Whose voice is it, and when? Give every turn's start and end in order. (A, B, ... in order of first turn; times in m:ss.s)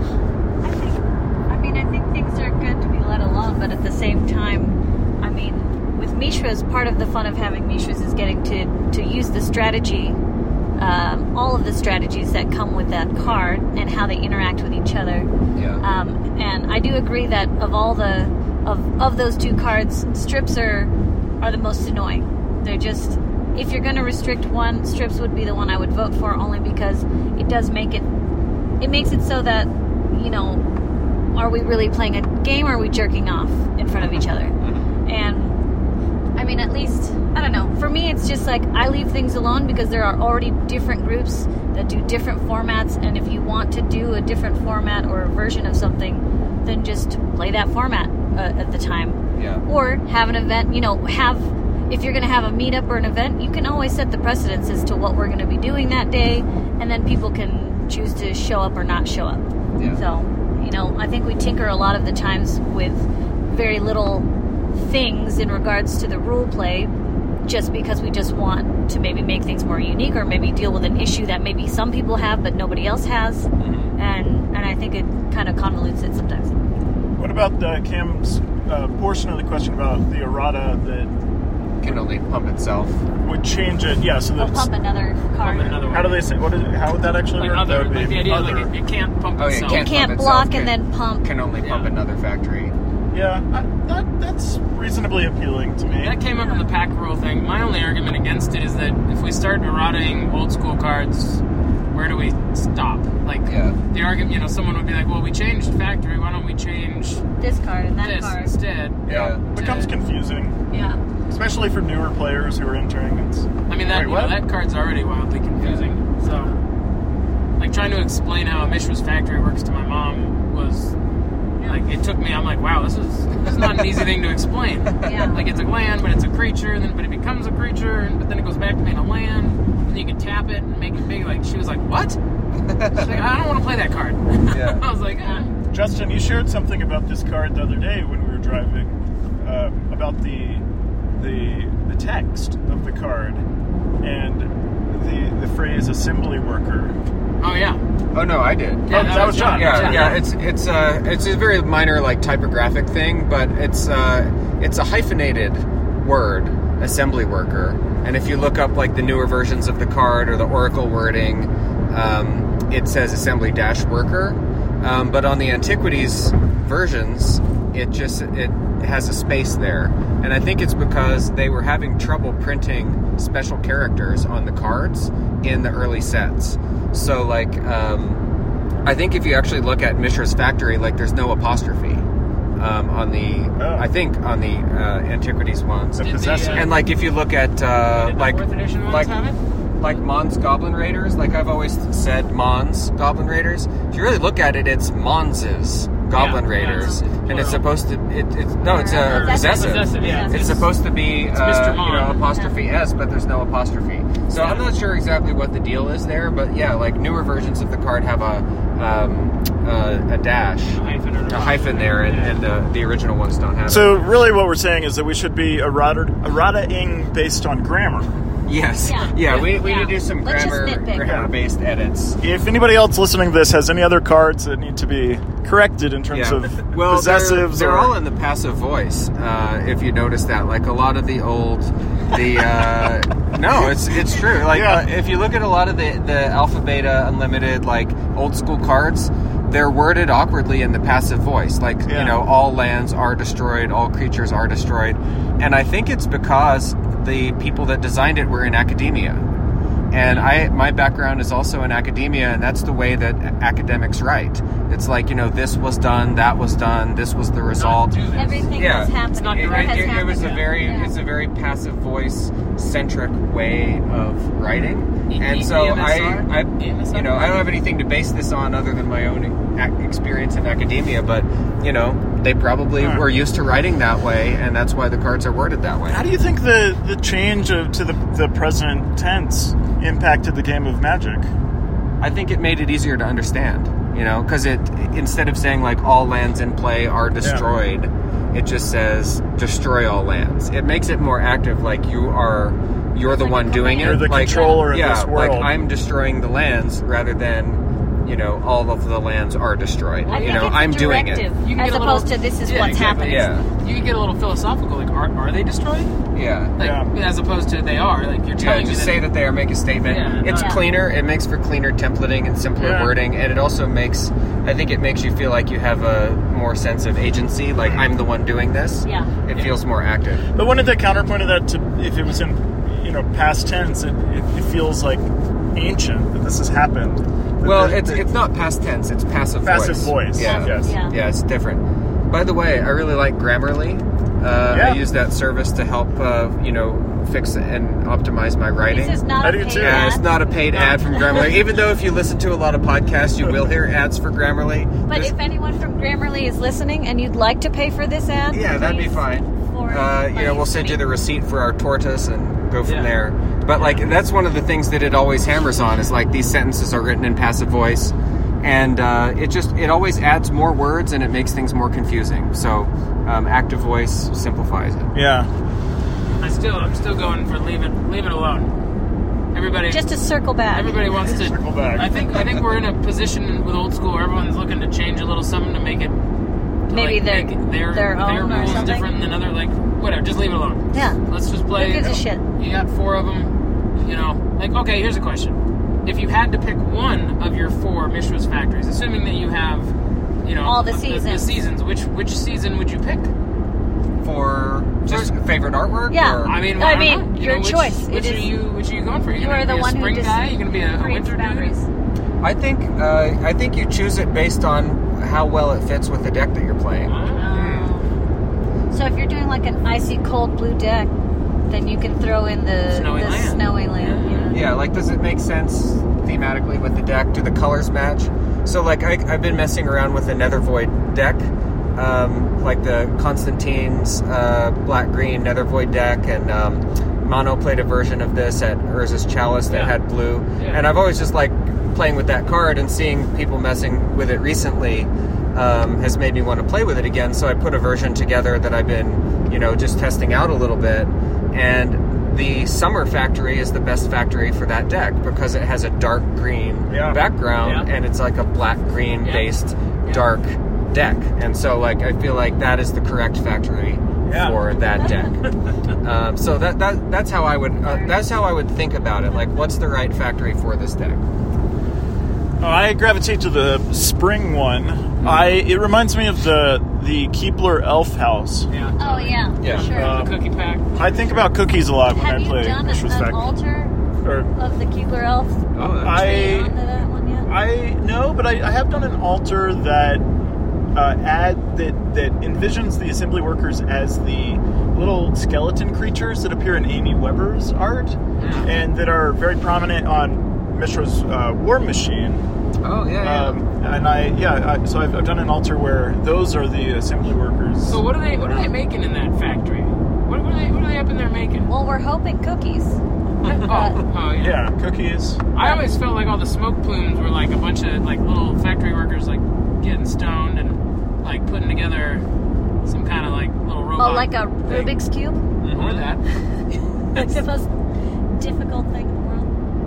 0:00.6-0:10.2 A
0:10.8-0:15.3 A
0:15.5-0:15.8 B
0:15.8-0:28.1 A
0:28.8-0:30.6 A
0:31.3-0:35.6 A
0:33.9-0:34.9 B
0:36.4-1:06.9 A
0:49.3-0:49.6 B
0:59.8-1:00.0 B
1:07.4-1:16.6 A
1:13.6-1:14.0 B
1:17.2-1:21.1 C
1:21.8-1:23.0 B
1:23.2-1:24.7 C
1:24.4-1:25.9 A
1:25.4-1:26.2 D
1:25.9-1:28.7 C
1:27.3-1:29.9 D
1:29.4-1:32.7 B
1:29.6-1:31.3 A
1:31.6-1:31.9 D
1:33.1-1:36.2 C
1:35.9-1:41.4 D
1:41.9-1:47.2 D
1:43.5-1:43.8 B
1:47.4-1:48.5 A
1:48.0-1:49.9 D
1:49.0-1:50.6 C
1:49.1-1:49.5 B
1:50.7-1:51.0 A
1:51.3-1:54.4 C
1:53.7-1:56.5 D
1:55.6-1:55.9 B
1:57.6-2:00.9 D
2:01.6-2:12.2 D
2:05.0-2:05.4 A
2:12.7-2:13.2 B
2:12.9-2:15.5 D
2:14.5-2:14.8 B
2:15.7-2:20.6 C
2:21.2-2:23.4 C
2:24.0-2:27.0 C
2:27.4-2:27.8 D
2:28.1-2:58.2 B
2:28.9-2:30.2 D
2:28.9-2:30.2 C
2:58.8-3:02.0 B
3:02.6-3:09.2 B
3:03.6-3:03.8 C
3:06.0-3:06.7 C
3:06.0-3:06.7 D
3:07.8-3:09.4 D
3:09.8-3:34.1 B
3:16.1-3:17.7 D
3:16.6-3:17.0 A
3:18.6-3:20.7 A
3:18.9-3:22.2 D
3:22.3-3:22.6 A
3:24.3-3:24.7 D
3:30.7-3:32.4 D
3:33.7-3:38.1 C
3:38.4-3:42.2 B
3:38.8-3:41.2 A
3:41.0-3:41.3 C
3:42.2-3:48.0 C
3:46.1-4:09.2 B
3:53.9-3:54.8 C
4:01.8-4:02.2 C
4:09.9-4:36.0 B
4:10.0-4:10.4 D
4:17.5-4:18.6 D
4:18.1-4:20.9 A
4:19.1-4:20.5 D
4:25.1-4:27.5 D
4:32.8-4:33.0 C
4:35.9-4:41.3 C
4:42.0-5:01.2 B
4:47.2-4:47.4 C
4:53.0-4:54.6 A
4:53.8-4:55.5 C
5:00.0-5:00.7 D
5:00.1-5:03.3 A
5:01.4-5:05.9 D
5:03.0-5:03.5 B
5:06.1-5:06.6 B
5:06.6-5:09.1 D
5:06.6-5:06.9 C
5:08.4-5:20.2 B
5:09.8-5:10.6 D
5:10.2-5:10.6 A
5:12.6-5:13.0 C
5:18.8-5:19.1 A
5:20.3-5:28.1 C
5:27.4-5:39.1 B
5:29.4-5:30.8 C
5:30.2-5:31.0 A
5:34.5-5:34.8 C
5:38.7-5:40.1 A
5:39.2-5:39.9 C
5:39.6-5:45.1 B
5:40.4-5:40.8 D
5:44.9-5:50.8 A
5:48.3-6:04.9 B
5:52.6-5:53.0 D
5:53.5-5:53.8 D
6:04.9-6:05.3 C
6:06.2-6:08.5 D
6:09.3-6:09.9 D
6:09.7-6:10.8 A
6:10.5-6:16.0 D
6:11.2-6:12.0 C
6:16.7-6:33.1 D
6:16.7-6:18.9 A
6:20.7-6:21.0 A
6:21.5-6:22.2 A
6:30.4-6:31.4 A
6:34.0-6:36.3 B
6:34.9-6:35.1 D
6:35.9-6:38.3 A
6:36.2-6:41.6 D
6:39.1-6:41.6 A
6:42.2-6:47.7 B
6:46.8-6:47.3 D
6:47.1-6:47.9 A
6:48.7-6:50.9 A
6:51.5-6:54.5 A
6:52.7-6:54.4 D
6:54.3-7:35.2 B
7:09.5-7:09.8 D
7:10.4-7:10.6 D
7:26.7-7:27.0 C
7:27.4-7:27.7 D
7:29.0-7:29.3 D
7:34.0-7:34.4 C
7:35.8-7:41.0 B
7:37.6-7:38.0 A
7:42.4-7:48.5 C
7:45.0-7:45.4 B
7:48.5-7:51.3 D
7:48.8-7:50.0 A
7:49.4-7:49.7 B
7:49.4-7:50.2 C
7:50.7-7:53.4 C
7:51.9-7:53.8 A
7:54.0-7:54.3 C
7:54.3-7:55.4 A
7:55.5-7:56.1 B
7:55.6-7:56.5 C
7:56.0-7:57.3 A
7:57.2-8:00.0 C
8:00.7-8:12.3 C
8:08.2-8:08.5 B
8:12.6-8:13.4 B
8:13.0-8:18.5 C
8:17.6-8:21.5 D
8:21.5-8:23.8 A
8:23.3-8:24.4 D
8:24.2-8:25.3 C
8:25.3-8:32.1 D
8:25.4-8:25.7 A
8:32.6-8:34.1 D
8:33.8-8:35.2 A
8:35.4-8:35.9 B
8:35.5-8:36.0 D
8:36.9-8:37.5 A
8:38.1-8:39.3 A